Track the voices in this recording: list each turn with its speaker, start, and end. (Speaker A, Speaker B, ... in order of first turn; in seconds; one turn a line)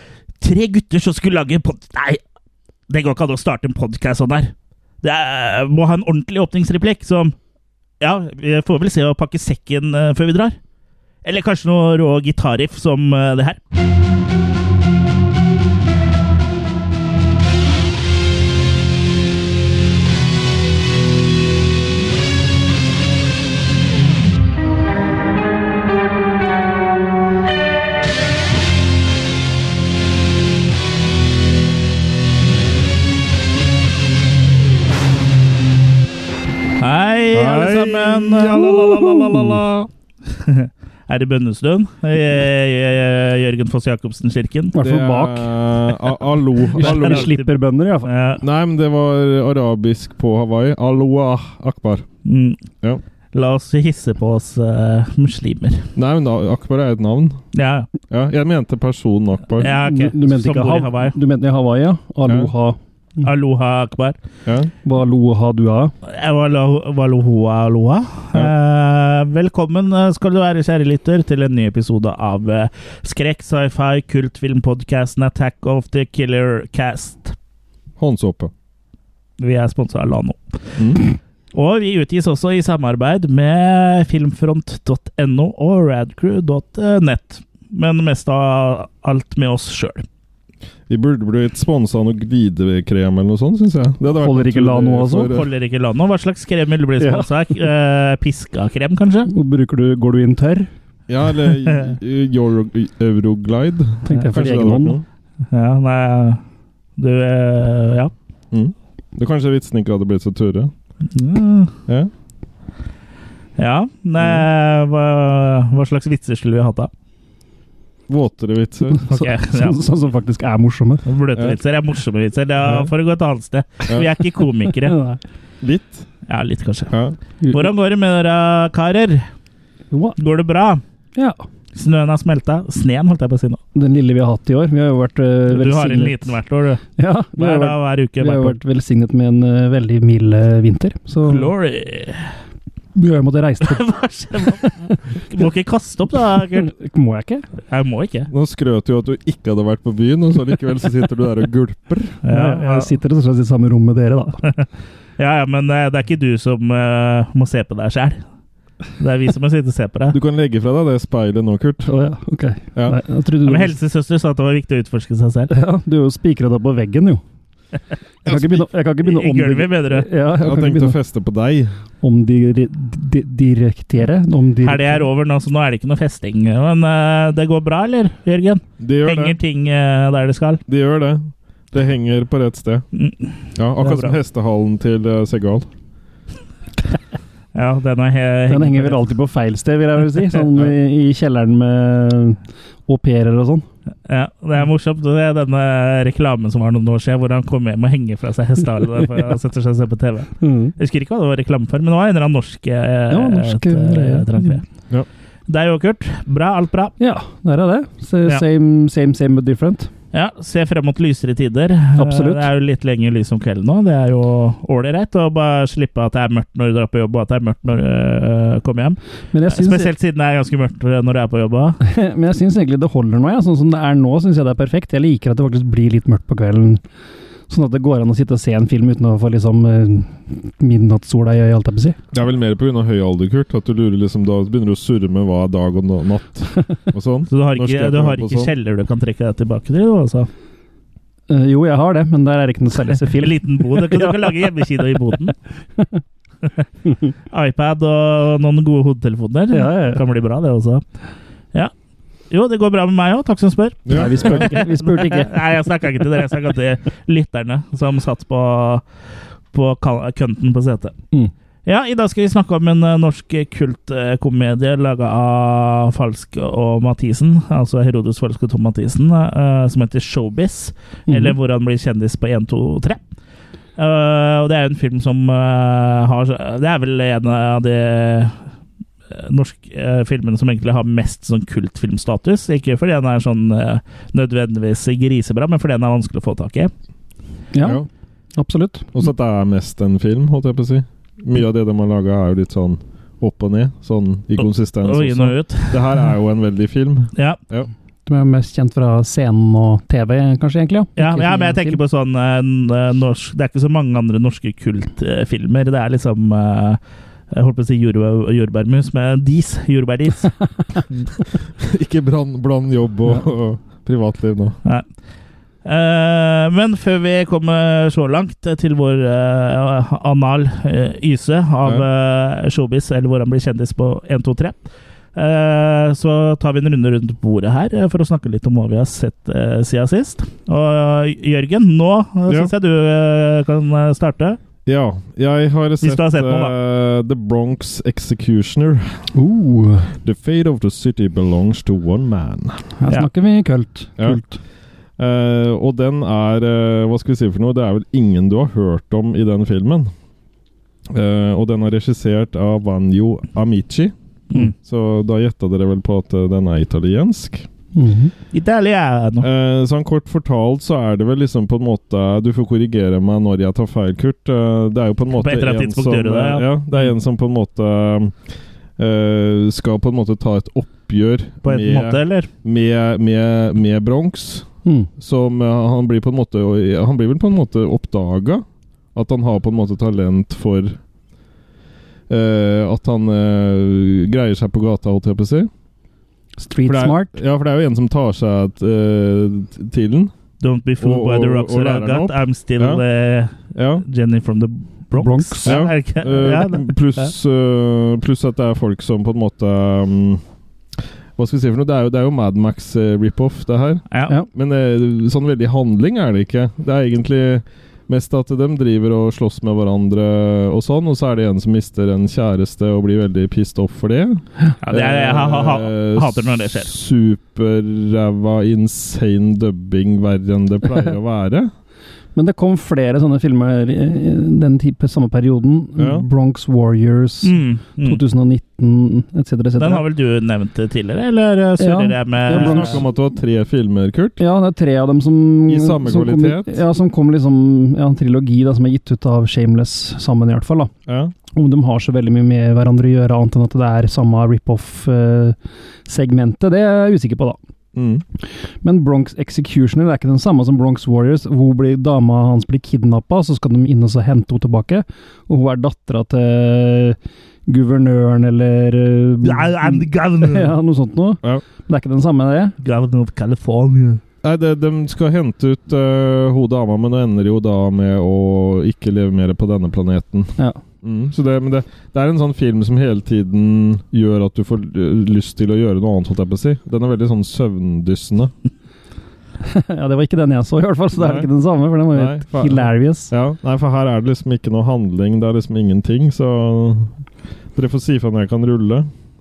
Speaker A: 0.4-2.2
Speaker A: 2.9-7.3
Speaker A: 8.0-10.6
Speaker A: 11.2-13.6
Speaker A: 36.8-39.6
Speaker B: 37.3-39.9
Speaker A: 40.4-44.7
Speaker C: 44.7-45.5
Speaker B: 44.8-47.3
Speaker C: 46.8-48.1
Speaker A: 46.8-47.5
Speaker A: 48.0-48.4
Speaker B: 48.4-52.1
Speaker A: 52.2-52.6
Speaker A: 53.3-55.9
Speaker B: 56.0-57.5
Speaker A: 57.5-57.9
Speaker B: 58.1-59.7
Speaker A: 59.6-61.1
Speaker C: 59.8-63.2
Speaker B: 62.2-62.5
Speaker A: 63.2-64.2
Speaker B: 64.4-64.7
Speaker C: 64.8-65.9
Speaker A: 66.0-77.3
Speaker B: 78.0-78.5
Speaker A: 79.4-90.0
Speaker B: 80.8-81.0
Speaker B: 90.9-95.5
Speaker C: 94.1-95.3
Speaker A: 95.3-99.3
Speaker C: 97.0-97.3
Speaker C: 99.3-100.7
Speaker B: 101.1-105.0
Speaker C: 104.0-105.0
Speaker A: 105.5-106.4
Speaker A: 107.0-108.1
Speaker B: 108.5-110.7
Speaker A: 111.1-111.7
Speaker A: 113.6-116.9
Speaker B: 114.2-114.5
Speaker B: 118.1-119.0
Speaker C: 118.9-121.0
Speaker A: 119.1-119.8
Speaker A: 121.0-125.0
Speaker B: 122.6-122.9
Speaker C: 124.7-125.2
Speaker B: 125.6-126.1
Speaker A: 126.3-126.9
Speaker B: 126.9-127.2
Speaker A: 127.5-129.3
Speaker C: 129.9-130.2
Speaker A: 130.2-130.8
Speaker C: 131.1-131.4
Speaker A: 131.7-133.6
Speaker C: 133.7-136.3
Speaker A: 135.5-136.8
Speaker C: 137.0-141.5
Speaker A: 137.3-138.6
Speaker A: 141.2-142.4
Speaker C: 142.9-143.8
Speaker A: 143.6-146.7
Speaker C: 146.5-147.4
Speaker A: 147.7-148.3
Speaker B: 148.3-152.2
Speaker A: 152.2-152.9
Speaker C: 152.3-154.4
Speaker A: 155.2-158.2
Speaker A: 159.0-160.2
Speaker B: 160.1-161.9
Speaker C: 161.8-163.7
Speaker A: 163.4-165.5
Speaker C: 165.5-167.2
Speaker C: 168.2-170.9
Speaker B: 168.2-168.6
Speaker A: 169.0-170.1
Speaker B: 170.4-171.7
Speaker C: 172.0-175.1
Speaker A: 174.6-180.6
Speaker B: 178.8-179.4
Speaker B: 180.7-182.9
Speaker A: 182.9-184.2
Speaker B: 183.5-185.7
Speaker A: 187.5-189.1
Speaker C: 188.5-193.7
Speaker A: 194.1-204.6
Speaker C: 200.4-200.7
Speaker C: 203.1-204.6
Speaker A: 205.5-206.9
Speaker C: 207.0-209.9
Speaker A: 210.1-221.8
Speaker C: 211.9-212.5
Speaker C: 219.3-219.9
Speaker C: 221.8-226.8
Speaker C: 227.5-232.0
Speaker B: 232.1-238.5
Speaker A: 237.3-240.3
Speaker C: 241.3-244.5
Speaker A: 243.2-245.3
Speaker C: 245.7-246.0
Speaker C: 246.8-247.1
Speaker A: 247.3-250.8
Speaker C: 249.5-250.0
Speaker A: 252.3-258.9
Speaker B: 253.8-254.6
Speaker C: 253.9-255.3
Speaker A: 259.5-260.9
Speaker A: 261.6-273.0
Speaker C: 271.1-271.3
Speaker A: 273.8-278.5
Speaker A: 279.1-286.7
Speaker C: 287.5-287.8
Speaker C: 288.3-288.9
Speaker B: 288.9-297.7
Speaker A: 294.4-295.8
Speaker A: 297.1-297.4
Speaker C: 298.1-301.8
Speaker A: 300.9-311.1
Speaker B: 311.6-314.6
Speaker A: 314.6-315.0
Speaker A: 315.6-334.4
Speaker B: 334.6-339.1
Speaker A: 335.8-336.5
Speaker C: 339.1-339.9
Speaker B: 340.0-342.8
Speaker C: 342.8-344.4
Speaker B: 345.0-349.9
Speaker B: 350.9-357.5
Speaker C: 357.7-358.1
Speaker A: 358.3-359.2
Speaker B: 359.2-380.8
Speaker A: 365.2-366.8
Speaker A: 371.4-372.3
Speaker C: 374.6-374.9
Speaker B: 382.1-385.5
Speaker C: 386.4-387.2
Speaker B: 386.6-390.1
Speaker A: 390.4-397.1
Speaker B: 390.8-392.8
Speaker B: 393.4-393.8
Speaker C: 394.9-395.6
Speaker B: 395.4-400.2
Speaker B: 401.1-421.5
Speaker A: 414.6-416.7
Speaker C: 422.1-429.8
Speaker B: 425.8-426.1
Speaker A: 427.2-428.0
Speaker A: 429.6-432.8
Speaker C: 431.6-432.8
Speaker B: 432.3-434.2
Speaker C: 434.2-440.7
Speaker B: 435.5-436.5
Speaker B: 440.9-441.1
Speaker C: 441.3-447.4
Speaker B: 447.7-448.0
Speaker C: 448.6-462.6
Speaker A: 459.2-460.5
Speaker A: 462.6-464.0
Speaker B: 464.2-478.3
Speaker C: 479.4-483.1
Speaker B: 480.9-481.3
Speaker B: 481.9-488.9